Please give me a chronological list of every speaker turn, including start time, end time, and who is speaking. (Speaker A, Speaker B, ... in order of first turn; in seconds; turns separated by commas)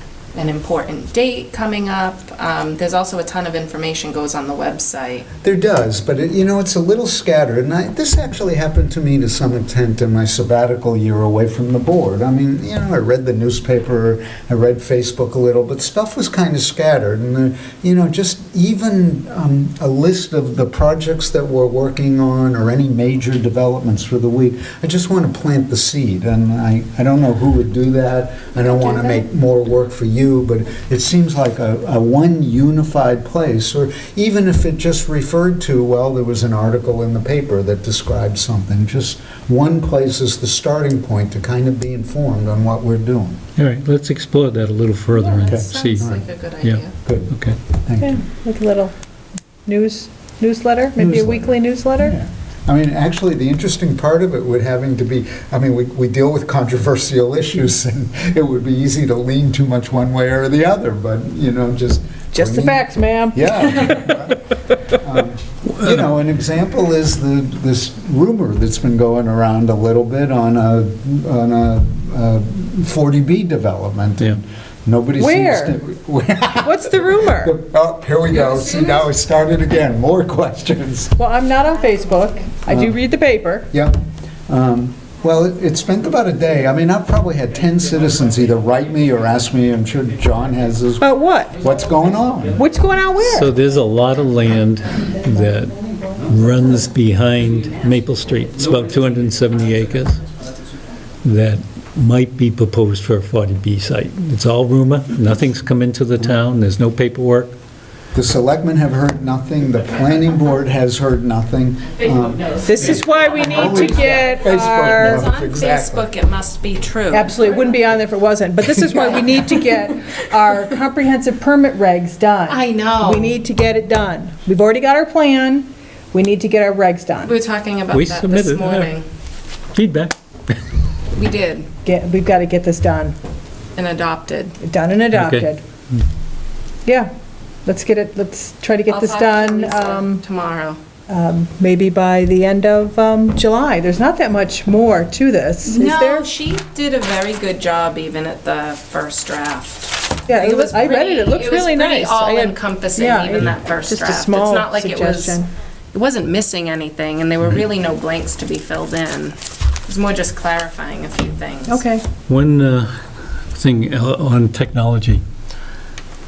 Speaker A: 0.3-5.3, Speaker B: 5.4-43.4, Speaker C: 43.6-47.6, Speaker A: 45.1-46.9, Speaker B: 45.5-46.2, Speaker B: 47.0-48.2, Speaker D: 48.0-48.9, Speaker D: 49.7-52.2, Speaker B: 51.0-81.2, Speaker D: 62.3-64.2, Speaker C: 65.7-66.0, Speaker D: 75.2-75.8, Speaker D: 76.6-77.5, Speaker D: 81.2-83.7, Speaker B: 82.7-83.0, Speaker B: 83.7-92.6, Speaker D: 91.0-91.6, Speaker D: 92.5-93.5, Speaker C: 93.2-100.2, Speaker C: 101.2-107.5, Speaker B: 108.1-116.1, Speaker D: 112.6-115.2, Speaker A: 113.2-117.8, Speaker D: 117.1-127.4, Speaker A: 122.5-123.3, Speaker A: 127.2-129.1, Speaker C: 127.9-128.9, Speaker C: 129.7-130.6, Speaker A: 131.1-131.7, Speaker D: 131.8-133.2, Speaker A: 133.8-134.6, Speaker D: 134.6-135.6, Speaker C: 135.1-136.0, Speaker D: 137.7-140.2, Speaker A: 138.9-140.8, Speaker D: 141.1-146.3, Speaker A: 145.7-155.4, Speaker D: 150.3-155.5, Speaker A: 155.9-161.9, Speaker D: 161.7-162.0, Speaker C: 162.3-163.0, Speaker C: 163.5-165.2